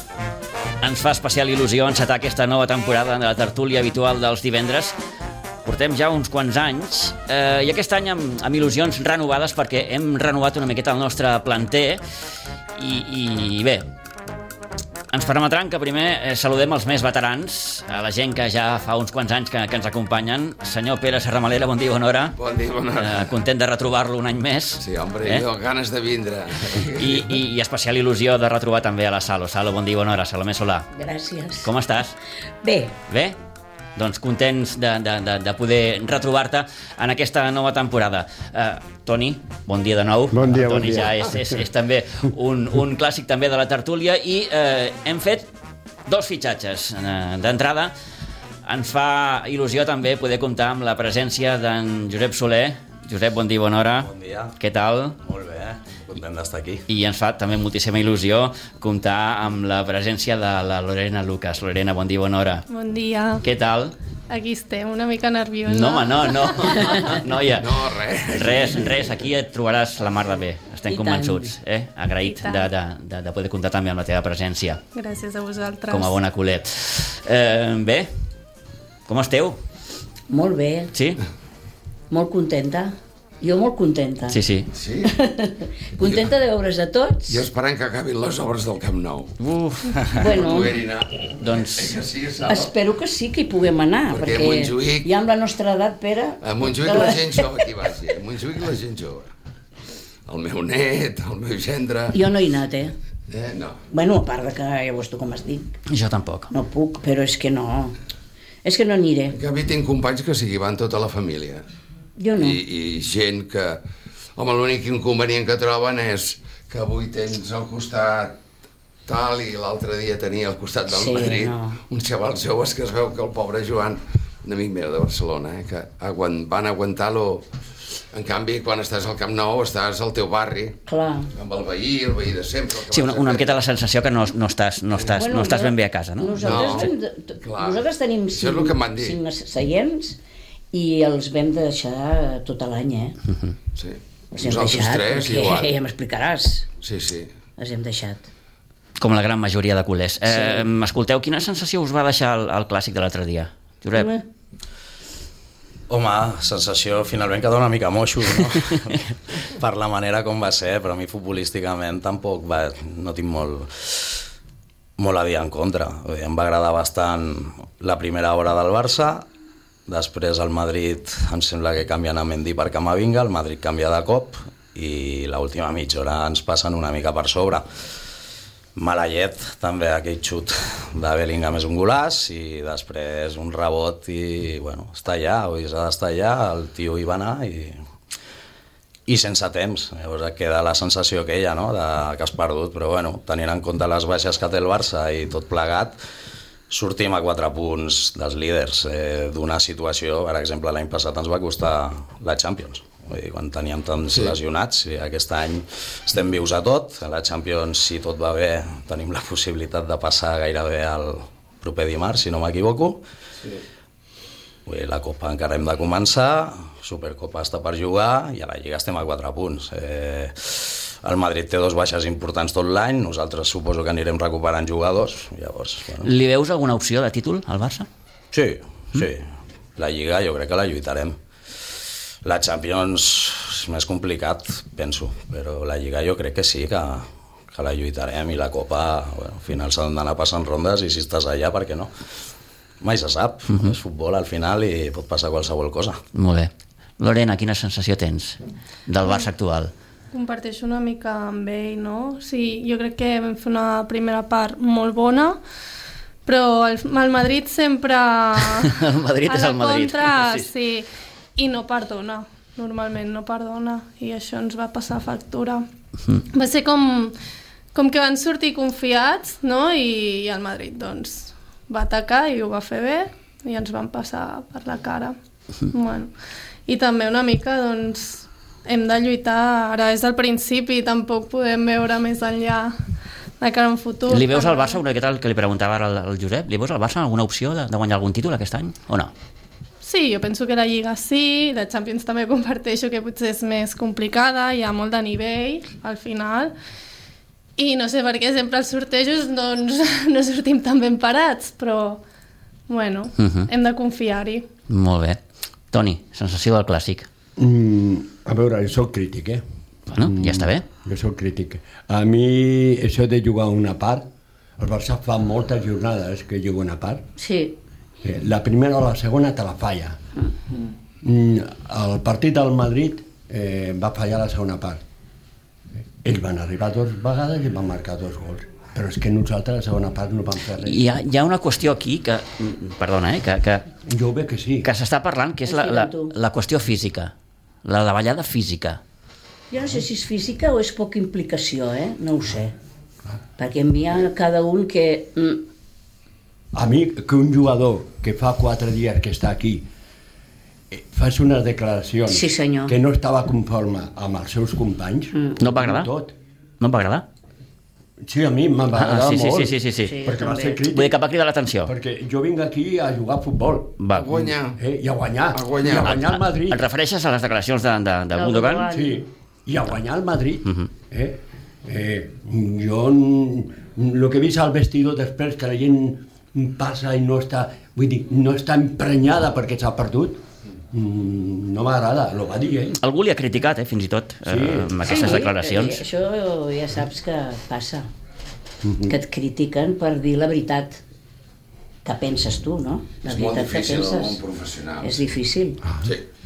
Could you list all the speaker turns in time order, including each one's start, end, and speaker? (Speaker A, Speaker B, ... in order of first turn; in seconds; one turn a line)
Speaker A: 0.8-4.9
Speaker A: 5.6-12.0
Speaker A: 12.8-13.8
Speaker A: 15.1-22.4
Speaker B: 22.3-23.3
Speaker A: 22.9-25.4
Speaker B: 24.8-27.4
Speaker A: 26.9-30.9
Speaker C: 30.9-31.7
Speaker A: 31.6-32.1
Speaker C: 32.6-32.9
Speaker A: 33.1-33.4
Speaker A: 34.0-45.5
Speaker D: 40.3-41.6
Speaker A: 46.0-47.9
Speaker A: 48.6-55.2
Speaker E: 54.0-54.5
Speaker E: 55.2-56.8
Speaker A: 56.9-62.6
Speaker F: 62.7-63.4
Speaker A: 63.4-63.9
Speaker F: 64.3-67.0
Speaker A: 65.7-74.8
Speaker B: 67.5-69.2
Speaker C: 70.8-71.5
Speaker F: 72.2-72.7
Speaker F: 74.9-76.2
Speaker A: 75.9-78.1
Speaker A: 79.1-79.5
Speaker C: 80.3-80.9
Speaker A: 80.9-81.2
Speaker C: 82.1-84.4
Speaker A: 84.3-84.7
Speaker B: 84.7-85.1
Speaker C: 85.0-87.4
Speaker B: 87.3-89.3
Speaker A: 89.4-90.1
Speaker B: 90.1-92.7
Speaker C: 90.1-90.8
Speaker A: 91.4-92.0
Speaker C: 92.5-97.6
Speaker B: 94.1-95.1
Speaker B: 96.4-99.3
Speaker B: 100.3-102.2
Speaker C: 102.1-102.9
Speaker B: 103.3-103.8
Speaker C: 103.9-105.7
Speaker A: 105.9-106.5
Speaker C: 106.5-108.0
Speaker C: 108.6-109.3
Speaker B: 109.3-111.6
Speaker C: 112.2-112.6
Speaker B: 112.4-113.8
Speaker B: 114.3-118.4
Speaker B: 119.1-127.5
Speaker C: 120.9-121.8
Speaker B: 128.1-130.8
Speaker C: 130.8-131.3
Speaker B: 131.3-133.5
Speaker A: 132.9-136.9
Speaker C: 135.0-140.2
Speaker B: 136.4-136.9
Speaker B: 137.4-139.2
Speaker C: 140.7-143.2
Speaker B: 143.7-145.7
Speaker C: 144.3-146.7
Speaker B: 146.8-147.3
Speaker C: 147.6-148.2
Speaker A: 149.0-154.1
Speaker C: 150.3-150.7
Speaker C: 153.9-154.2
Speaker E: 155.9-164.2
Speaker E: 165.0-169.2
Speaker E: 169.9-177.7
Speaker E: 178.8-187.8
Speaker E: 189.1-196.0
Speaker E: 196.7-213.0
Speaker E: 214.7-226.1
Speaker A: 226.0-227.9
Speaker E: 228.3-231.2
Speaker E: 232.2-241.9
Speaker E: 242.8-246.0
Speaker A: 246.1-249.7
Speaker F: 250.1-255.4
Speaker F: 256.2-265.6
Speaker A: 258.4-260.5
Speaker F: 266.3-267.1
Speaker F: 267.7-275.1
Speaker F: 275.7-276.1
Speaker F: 276.7-282.7
Speaker F: 283.4-284.8
Speaker A: 284.1-289.1
Speaker F: 289.8-296.5
Speaker F: 297.6-302.0
Speaker F: 302.7-304.5
Speaker A: 303.2-303.5
Speaker A: 304.7-305.2
Speaker A: 305.7-307.1
Speaker D: 307.4-309.4
Speaker A: 309.9-310.6
Speaker D: 309.9-314.0
Speaker D: 314.6-317.0
Speaker C: 317.2-317.6
Speaker D: 318.0-320.0
Speaker D: 321.0-324.8
Speaker D: 326.0-330.9
Speaker A: 330.6-333.6
Speaker D: 333.9-334.7
Speaker A: 334.6-337.1
Speaker C: 335.4-336.1
Speaker A: 337.6-338.8
Speaker C: 339.5-342.5
Speaker C: 343.4-345.4
Speaker D: 346.5-349.6
Speaker D: 350.7-356.1
Speaker C: 352.1-352.8
Speaker A: 355.4-355.9
Speaker A: 356.6-357.0
Speaker D: 358.0-361.0
Speaker A: 358.7-360.0
Speaker C: 359.8-360.6
Speaker A: 360.6-361.7
Speaker D: 361.6-366.6
Speaker A: 363.8-364.1
Speaker B: 363.9-364.6
Speaker B: 365.3-366.0
Speaker A: 365.9-368.6
Speaker C: 368.1-369.0
Speaker D: 368.7-382.8
Speaker A: 382.8-385.8
Speaker D: 384.2-384.8
Speaker C: 384.8-387.9
Speaker D: 388.6-388.9
Speaker C: 388.9-390.8
Speaker C: 391.8-394.2
Speaker B: 393.0-395.0
Speaker C: 394.8-395.6